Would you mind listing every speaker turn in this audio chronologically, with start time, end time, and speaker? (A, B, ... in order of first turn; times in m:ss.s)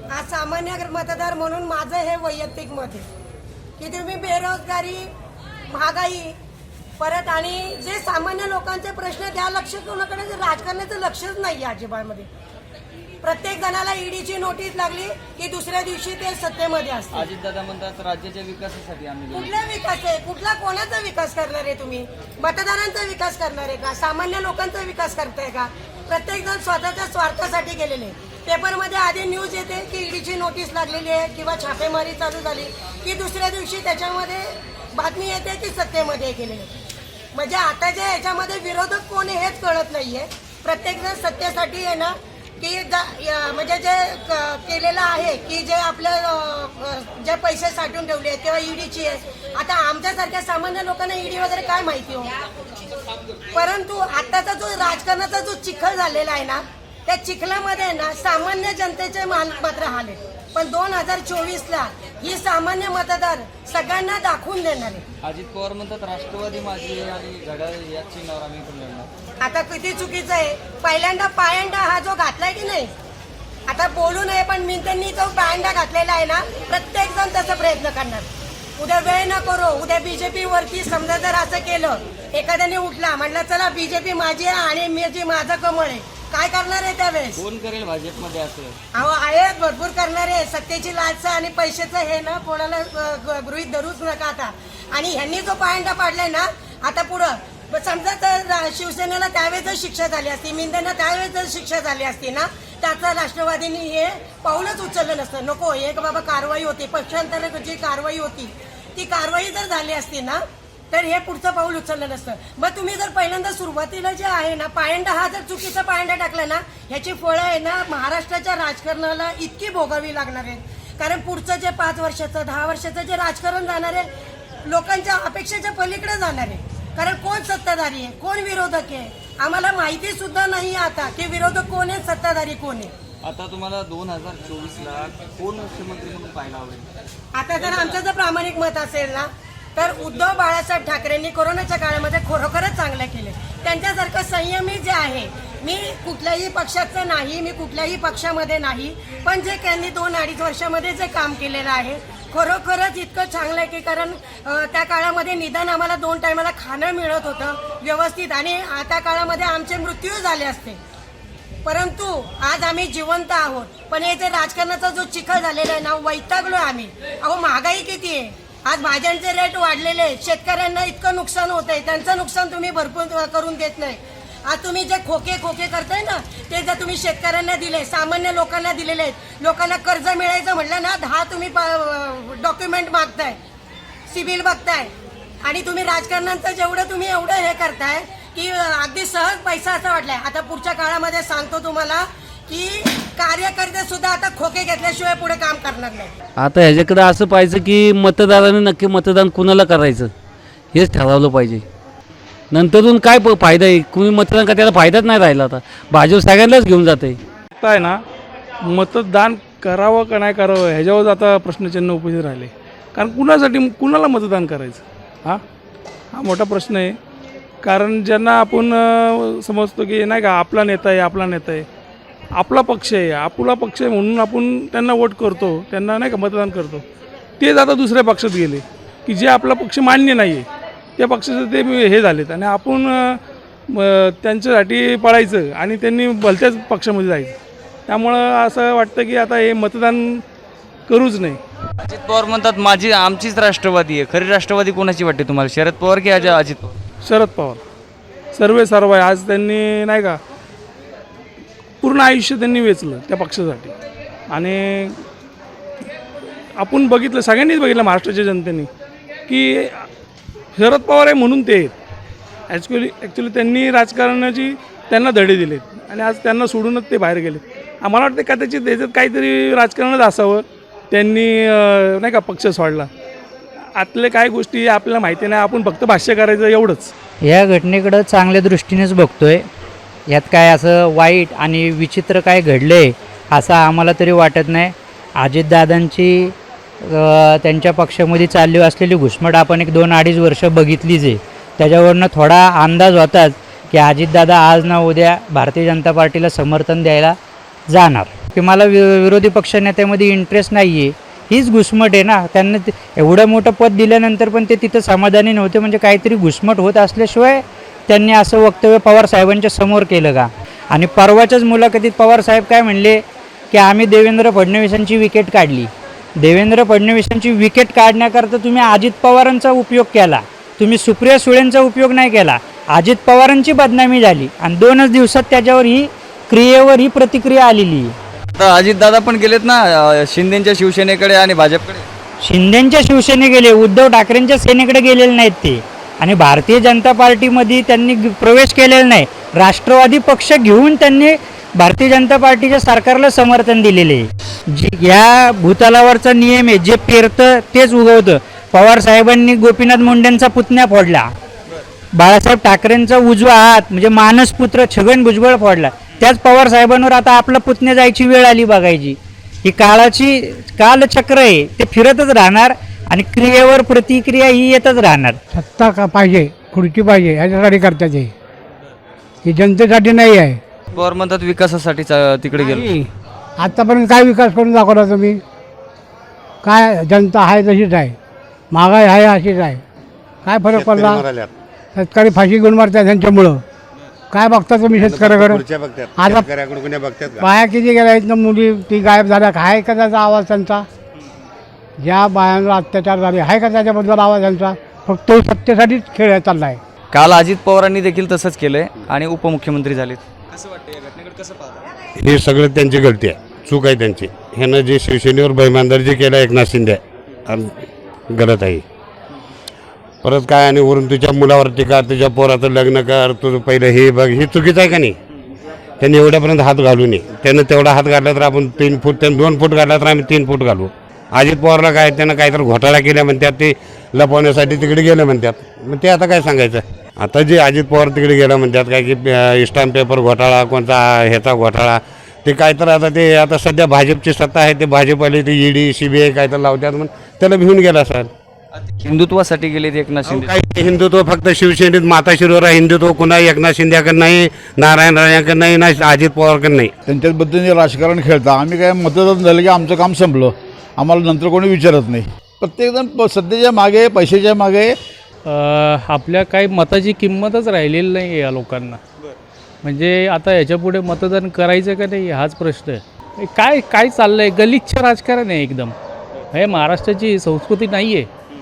0:00.1-0:03.1 A
0:03.8-0:05.1 A
0:05.7-0:06.4 A
0:07.0-0:12.3 A
0:13.2-0:17.3 A
0:17.1-0:19.6 B
0:19.3-0:36.8 A
0:37.3-0:52.3 A
0:53.5-1:05.0 A
1:05.2-1:09.1 B
1:09.4-1:12.9 A
1:13.7-1:18.3 A
1:18.8-1:27.4 A
1:27.4-1:28.8 B
1:28.9-2:04.1 A
2:04.6-2:12.9 A
2:13.2-2:16.9 B
2:17.3-2:40.8 A
2:17.6-2:18.0 B
2:41.6-3:03.4 A
3:04.1-3:04.9 A
3:05.4-3:16.1 A
3:16.4-3:20.1 C
3:20.7-3:21.6 C
3:22.5-3:27.2 C
3:27.6-3:28.0 D
3:28.7-3:35.4 D
3:36.1-3:37.0 D
3:37.6-3:41.7 D
3:42.4-3:46.8 D
3:47.4-3:50.5 D
3:51.0-3:53.2 D
3:53.7-3:57.3 D
3:57.9-4:00.2 D
4:00.9-4:01.4 D
4:01.8-4:06.8 B
4:07.0-4:07.6 D
4:08.3-4:10.2 D
4:11.8-4:13.7 D
4:14.3-4:15.0 D
4:16.6-4:18.7 D
4:19.3-4:19.9 D
4:20.6-4:21.7 D
4:22.5-4:32.9 D
4:33.8-4:36.9 D
4:37.2-4:39.5 E
4:40.1-4:57.2 E
4:57.7-5:28.0 E
5:28.3-5:31.9 B
5:32.2-5:51.1 E
5:52.0-6:05.2 E
6:05.3-6:08.1 F
6:09.2-6:10.4 F
6:10.8-6:12.7 B
6:12.6-6:12.8 F
6:13.4-6:15.2 F
6:16.4-6:18.0 F
6:18.5-6:19.6 F
6:20.3-6:21.0 F
6:20.6-6:21.2 G
6:21.8-6:23.4 F
6:24.1-6:25.4 F
6:24.9-6:27.1 G
6:26.0-6:26.3 F
6:27.2-6:30.6 F
6:31.8-6:36.6 F
6:36.9-6:41.4 B
6:42.0-6:46.8 G
6:48.1-6:48.6 G
6:50.0-6:55.0 G
6:55.8-7:18.1 G
7:18.7-7:20.3 B
7:20.1-7:26.7 G
7:26.9-7:34.8 H
7:35.3-7:38.8 I
7:39.6-7:45.8 I
7:46.3-7:48.1 I